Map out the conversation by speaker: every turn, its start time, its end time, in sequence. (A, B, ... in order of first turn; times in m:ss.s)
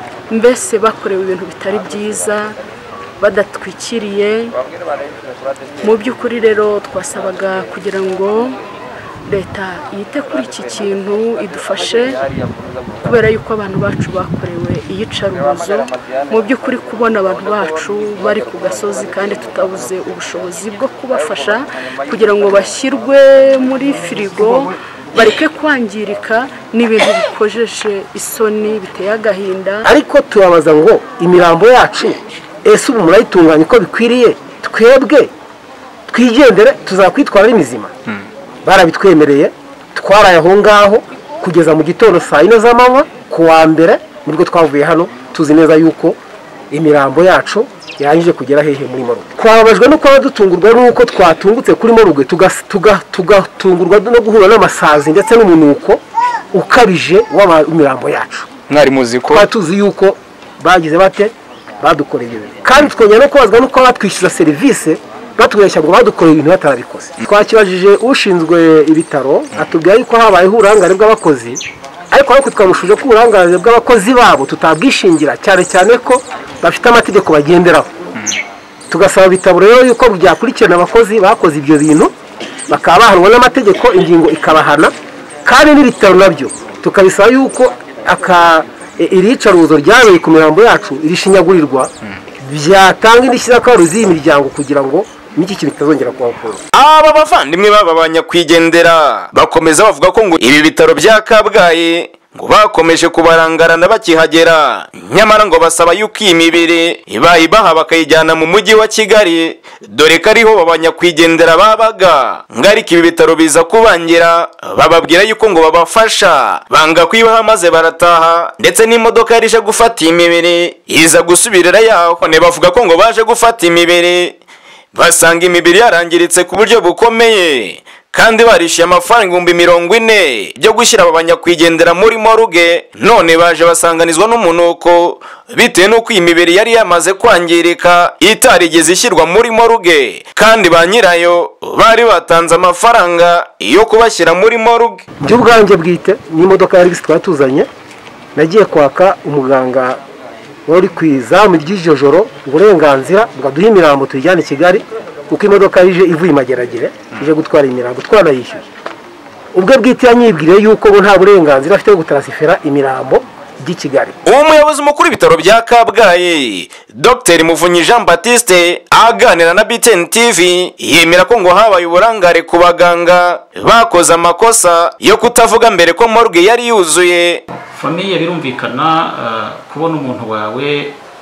0:00.3-0:02.6 A
0:03.2-0:04.5 A
0:05.8-0:08.5 A
0:09.2-0:12.2 A
0:13.0-0:29.9 A
0:29.8-0:35.3 B
0:36.1-0:37.9 B
0:38.6-0:46.2 B
0:46.7-0:56.0 B
0:56.5-0:58.5 B
0:58.7-0:59.5 C
0:59.3-1:17.9 B
1:18.9-1:22.1 B
1:22.7-1:24.9 B
1:25.4-1:31.9 B
1:32.4-1:36.6 B
1:36.7-2:04.4 C
2:04.9-2:25.0 C
2:25.2-2:27.7 B
2:28.3-2:30.0 B
2:30.7-2:38.6 B
2:39.5-2:44.2 B
2:44.2-2:57.4 C
2:57.7-3:01.0 D